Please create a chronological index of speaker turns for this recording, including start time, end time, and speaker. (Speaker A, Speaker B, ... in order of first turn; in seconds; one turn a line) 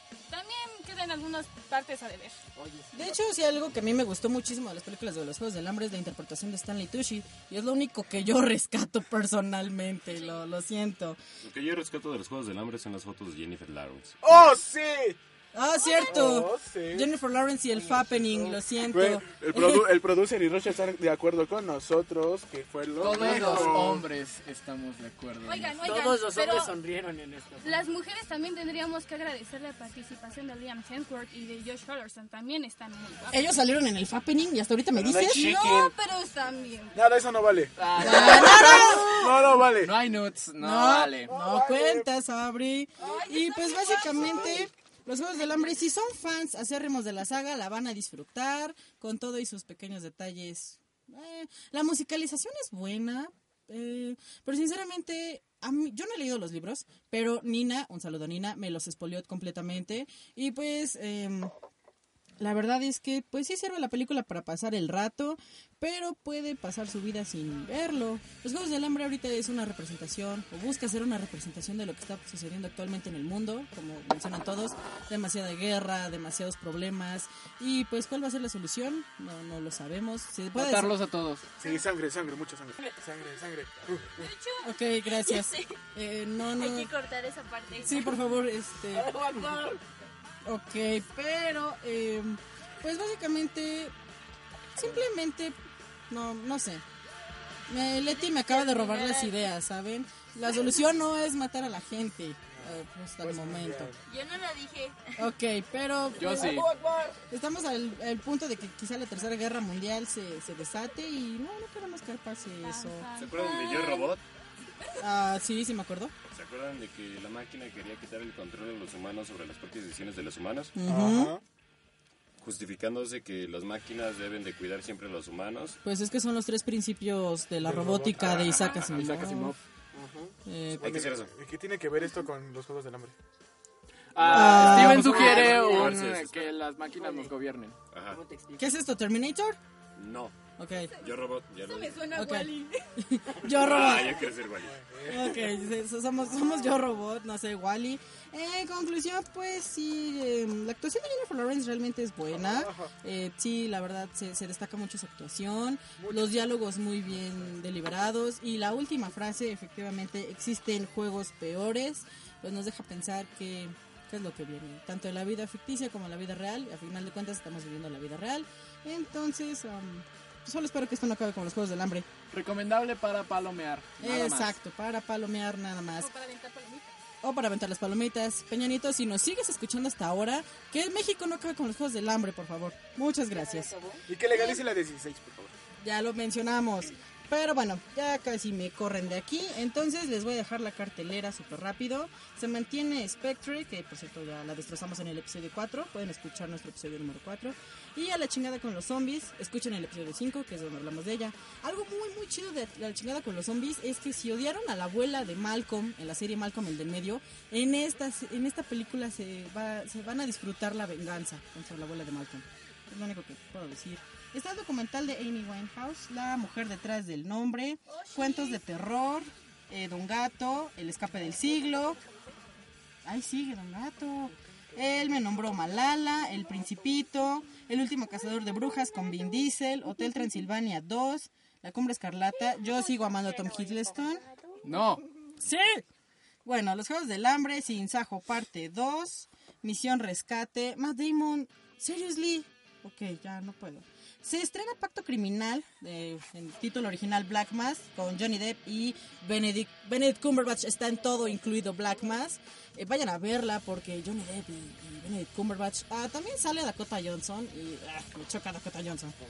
Speaker A: 0.3-2.4
Speaker B: 2.5-3.2
Speaker C: 2.9-11.2
Speaker D: 11.4-14.2
Speaker E: 14.2-15.2
Speaker C: 15.5-19.9
Speaker E: 16.0-17.1
Speaker E: 18.2-24.1
Speaker F: 23.0-25.8
Speaker B: 23.1-23.8
Speaker A: 25.4-26.8
Speaker B: 25.8-27.8
Speaker A: 27.6-33.4
Speaker C: 33.3-35.4
Speaker F: 35.0-35.9
Speaker A: 35.1-37.0
Speaker E: 36.9-39.9
Speaker F: 37.8-39.0
Speaker C: 38.0-39.2
Speaker F: 39.8-41.3
Speaker C: 40.6-61.5
Speaker E: 41.3-42.0
Speaker A: 43.0-44.5
Speaker C: 62.4-81.0
Speaker E: 80.6-84.3
Speaker A: 84.2-84.7
Speaker C: 84.6-86.9
Speaker G: 85.1-85.7
Speaker G: 86.5-88.3
Speaker C: 87.8-89.1
Speaker G: 89.0-89.7
Speaker C: 90.4-93.9
Speaker C: 94.7-95.5
Speaker C: 96.1-96.8
Speaker C: 97.7-103.9
Speaker G: 98.4-99.3
Speaker E: 102.6-104.0
Speaker G: 104.1-105.3
Speaker C: 105.2-106.6
Speaker F: 106.2-106.7
Speaker B: 106.4-107.1
Speaker C: 107.3-113.1
Speaker A: 112.6-114.1
Speaker D: 113.2-114.2
Speaker C: 115.0-116.1
Speaker D: 116.3-120.7
Speaker C: 120.8-121.3
Speaker E: 120.8-121.4
Speaker D: 122.4-125.8
Speaker C: 125.8-129.5
Speaker E: 127.6-133.1
Speaker C: 130.4-130.9
Speaker D: 130.8-131.3
Speaker F: 134.1-137.8
Speaker E: 134.2-135.5
Speaker C: 134.3-135.4
Speaker B: 135.2-135.7
Speaker D: 135.2-136.4
Speaker B: 137.0-137.3
Speaker D: 137.9-138.2
Speaker B: 138.1-138.7
Speaker C: 138.6-139.6
Speaker D: 139.9-140.3
Speaker C: 140.6-140.9
Speaker A: 141.0-142.8
Speaker D: 141.0-142.1
Speaker C: 142.1-144.3
Speaker D: 143.5-144.8
Speaker E: 145.0-145.3
Speaker C: 145.0-172.1
Speaker E: 152.3-152.9
Speaker E: 156.0-156.5
Speaker F: 172.3-174.6
Speaker C: 174.0-176.1
Speaker A: 176.0-176.9
Speaker C: 177.2-183.8
Speaker E: 184.1-185.5
Speaker C: 184.3-184.6
Speaker C: 185.8-222.0
Speaker A: 218.0-218.4
Speaker C: 223.0-234.2
Speaker G: 232.7-233.8
Speaker G: 234.3-234.6
Speaker F: 234.6-235.0
Speaker C: 235.4-235.8
Speaker C: 236.4-259.1